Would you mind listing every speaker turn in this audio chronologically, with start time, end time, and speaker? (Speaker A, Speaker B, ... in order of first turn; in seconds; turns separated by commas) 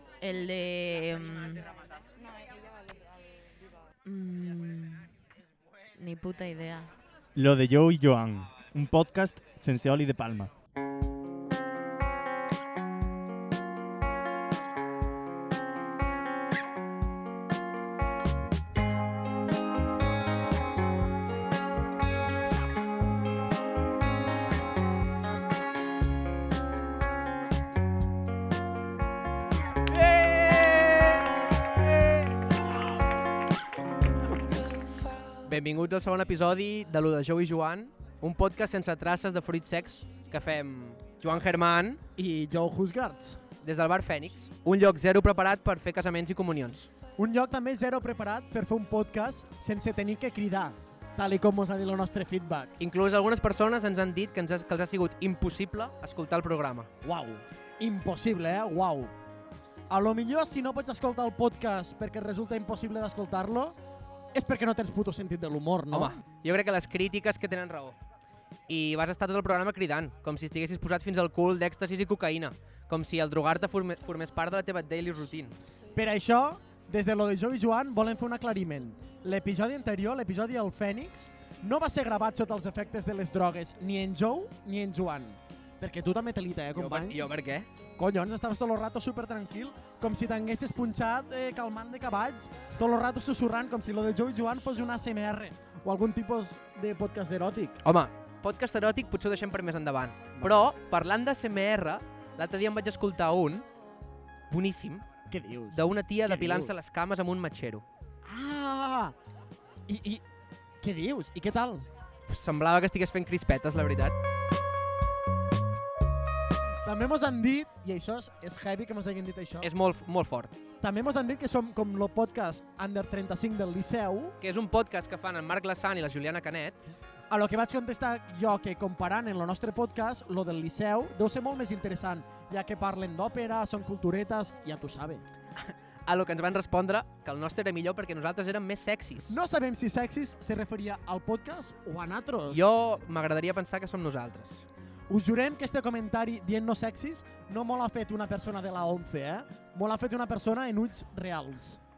Speaker A: 0.2-1.7, Speaker A: 4.0-5.1, Speaker A: 6.0-6.9, Speaker B: 7.3-10.5, Speaker C: 35.5-42.0, Speaker D: 42.2-43.4, Speaker C: 43.6-46.9, Speaker D: 47.2-52.8, Speaker C: 52.8-56.9, Speaker D: 57.0-59.1, Speaker D: 59.9-63.8, Speaker D: 64.3-66.2, Speaker C: 65.9-68.0, Speaker C: 68.7-75.5, Speaker D: 75.9-87.2, Speaker C: 86.7-87.7, Speaker D: 88.0-97.8, Speaker C: 97.8-103.6, Speaker D: 100.3-100.7, Speaker C: 104.5-105.0, Speaker D: 105.3-106.7, Speaker C: 105.7-107.8, Speaker D: 108.2-109.1, Speaker D: 109.9-110.2, Speaker D: 110.8-111.9, Speaker C: 112.3-114.1, Speaker D: 116.8-119.7, Speaker C: 119.6-120.5, Speaker D: 120.8-124.3, Speaker C: 124.4-126.8, Speaker D: 127.3-135.2, Speaker C: 135.6-139.3, Speaker D: 139.3-142.7, Speaker C: 142.5-144.6, Speaker D: 145.1-151.8